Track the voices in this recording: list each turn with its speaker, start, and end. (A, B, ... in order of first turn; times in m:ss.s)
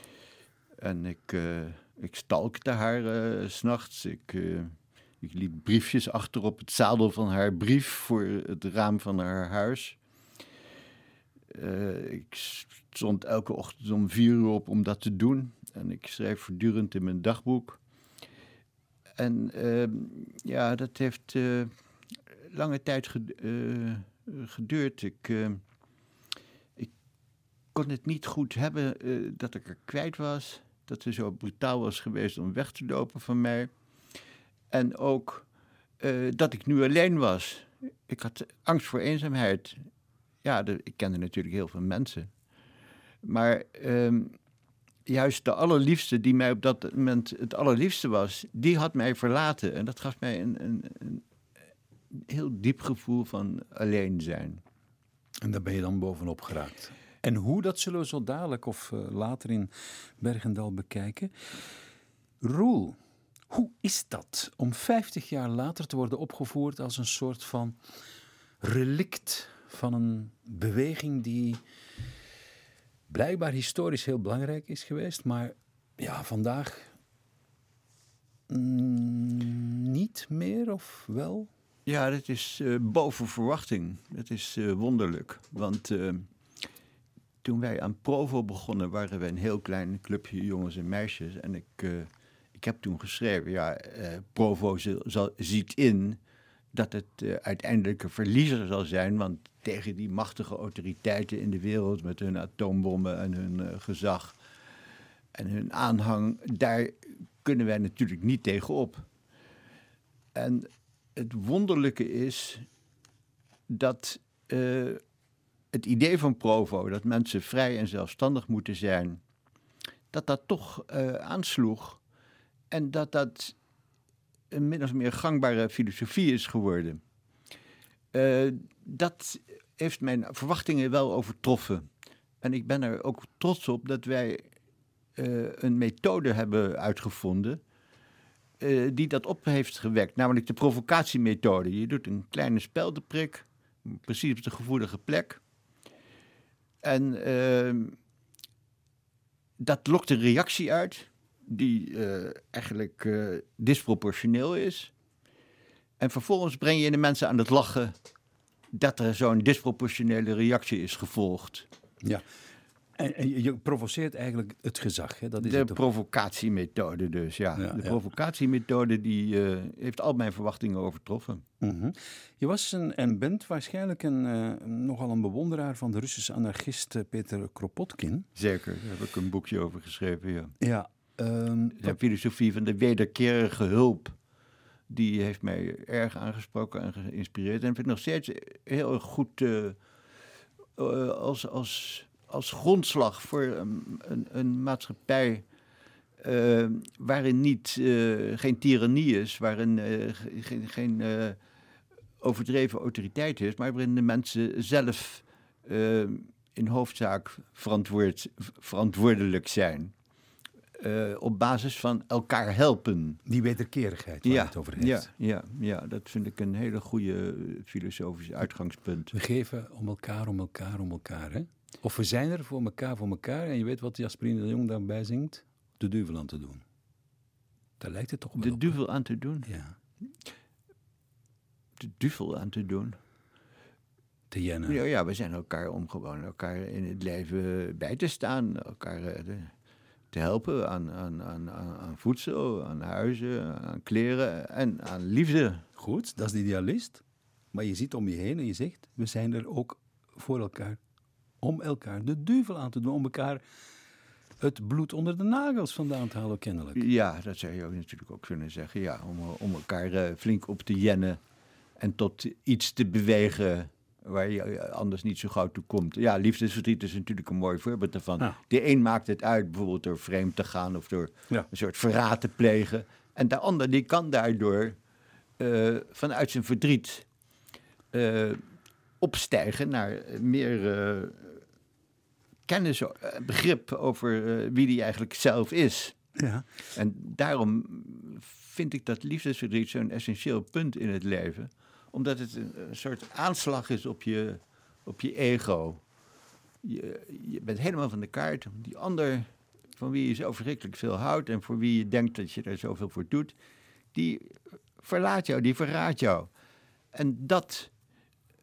0:00.8-0:10.0 A
0:11.5-0:17.8 A
0:19.2-0:21.7 A
0:22.5-0:25.6 A
0:27.7-0:33.7 A
0:34.7-0:35.4 A
0:36.0-0:39.8 A
0:40.4-0:42.3 A
0:43.2-0:44.4 A
0:45.1-0:51.2 A
0:52.1-0:54.6 A
0:55.4-1:01.3 B
1:02.4-1:03.0 B
1:03.5-1:07.8 B
1:08.6-1:11.6 B
1:13.1-1:16.9 B
1:18.5-1:21.5 B
1:21.8-1:26.3 A
1:27.4-1:36.2 A
1:36.7-1:44.4 A
1:45.3-1:49.0 A
1:50.3-1:52.6 A
1:53.7-1:55.0 A
1:55.7-1:59.2 A
2:00.1-2:02.0 A
2:02.7-2:03.6 A
2:04.5-2:07.0 A
2:08.1-2:11.9 A
2:12.4-2:14.4 A
2:15.2-2:17.6 A
2:18.6-2:25.4 A
2:26.8-2:28.0 A
2:29.6-2:34.9 A
2:36.0-2:38.0 A
2:38.7-2:41.7 A
2:43.0-2:45.8 B
2:45.4-2:51.4 A
2:47.6-2:48.0 B
2:51.6-2:58.3 B
2:58.4-3:00.5 A
3:00.6-3:02.0 B
3:01.8-3:04.2 A
3:04.9-3:09.8 A
3:10.8-3:15.4 A
3:16.2-3:21.4 A
3:22.2-3:29.9 A
3:30.8-3:33.2 A
3:33.2-3:35.1 B
3:34.2-3:39.1 A
3:39.1-3:46.6 B
3:47.8-3:48.7 B
3:48.4-3:49.5 A
3:49.5-3:49.7 B
3:51.8-3:53.0 A
3:54.3-3:54.8 B
3:54.6-3:59.5 A
4:00.1-4:05.6 A
4:05.8-4:07.0 B
4:07.5-4:10.8 B
4:11.4-4:13.4 B
4:14.4-4:16.8 B
4:16.7-4:21.2 A
4:21.8-4:34.8 A
4:35.4-4:37.0 A
4:37.9-4:38.4 A
4:39.0-4:41.4 A
4:42.5-4:46.0 A
4:46.2-4:46.4 B
4:46.7-4:55.8 A
4:56.6-5:03.3 A
5:03.9-5:06.3 A
5:06.9-5:07.7 A